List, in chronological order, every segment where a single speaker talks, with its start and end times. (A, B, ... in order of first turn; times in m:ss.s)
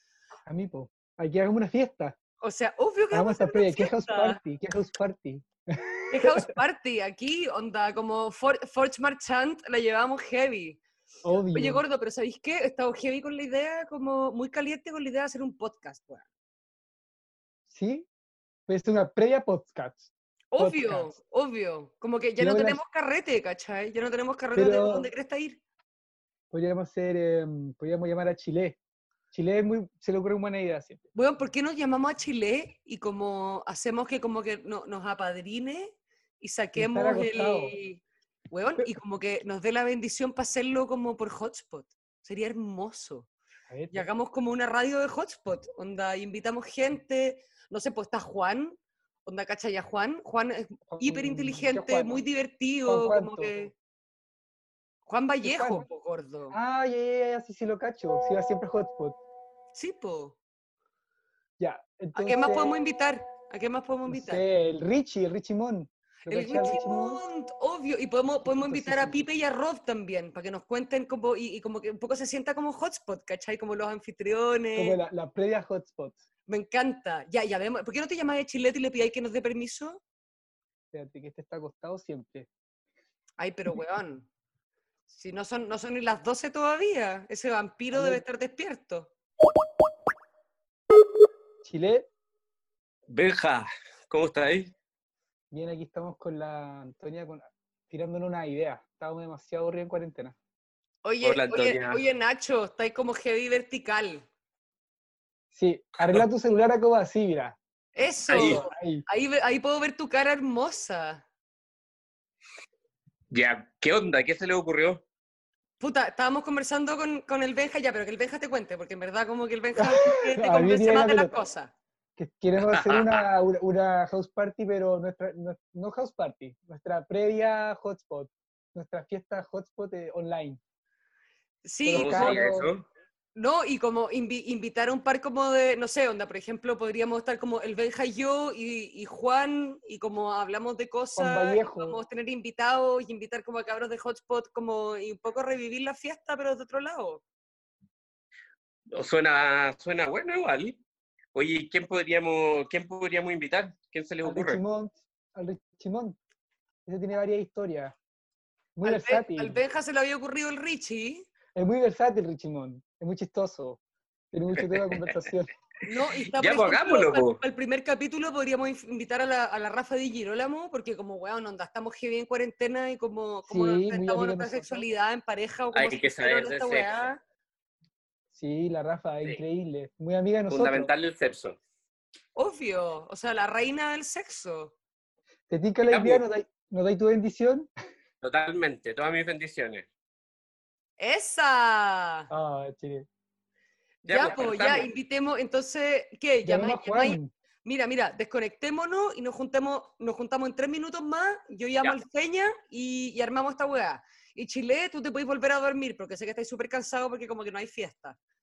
0:00.5-0:02.2 A
0:02.4-0:04.4 B
0:03.1-0:06.5 A
0:06.1-0:10.8 B
0:11.2-0:11.8 A
0:11.5-0:16.2 B
0:17.7-0:18.1 A
0:18.7-0:21.1 A
0:20.5-0:25.6 B
0:22.4-0:22.8 A
0:24.6-0:25.1 A
0:26.5-0:28.8 A
0:29.3-0:31.0 A
0:31.1-0:43.3 B
0:36.7-0:37.7 A
0:43.7-0:44.0 A
0:43.9-0:53.7 B
0:50.9-0:52.2 A
0:52.8-0:53.7 A
0:55.1-0:56.6 B
0:55.4-0:55.9 A
0:56.5-0:59.2 A
0:59.7-1:00.3 B
1:01.6-1:02.8 A
1:02.2-1:04.4 B
1:04.1-1:07.2 A
1:06.3-1:15.0 B
1:08.4-1:09.2 A
1:14.7-1:16.2 A
1:16.5-1:20.0 B
1:20.9-1:22.5 A
1:23.4-1:24.3 B
1:25.1-1:29.1 B
1:27.9-1:28.2 A
1:31.6-1:32.1 A
1:33.1-1:34.7 C
1:35.5-1:40.3 A
1:41.0-1:44.2 B
1:41.2-1:42.0 C
1:45.5-1:47.6 A
1:48.0-1:51.2 B
1:48.3-1:48.6 C
1:48.3-1:49.0 A
1:53.3-1:55.0 C
1:55.8-2:01.7 B
1:59.8-2:01.4 A
2:02.2-2:10.6 A
2:02.6-2:03.2 C
2:11.6-2:12.5 B
2:11.9-2:12.7 A
2:11.9-2:12.8 C
2:13.3-2:27.2 B
2:21.2-2:22.0 A
2:28.9-2:30.8 C
2:31.3-2:34.6 C
2:34.2-2:36.2 A
2:36.8-2:37.9 A
2:38.8-2:39.6 A
2:38.8-2:41.3 B
2:41.5-2:43.8 A
2:44.3-2:45.5 A
2:45.8-2:57.2 B
2:46.3-2:47.4 C
2:53.5-2:54.9 A
2:55.7-2:57.1 C
2:58.3-3:00.9 A
3:00.5-3:01.6 C
3:02.3-3:04.7 B
3:05.5-3:07.7 A
3:05.9-3:06.2 C
3:08.2-3:09.8 C
3:11.0-3:12.3 B
3:12.3-3:13.0 A
3:14.0-3:14.9 C
3:14.1-3:28.2 B
3:16.4-3:17.3 A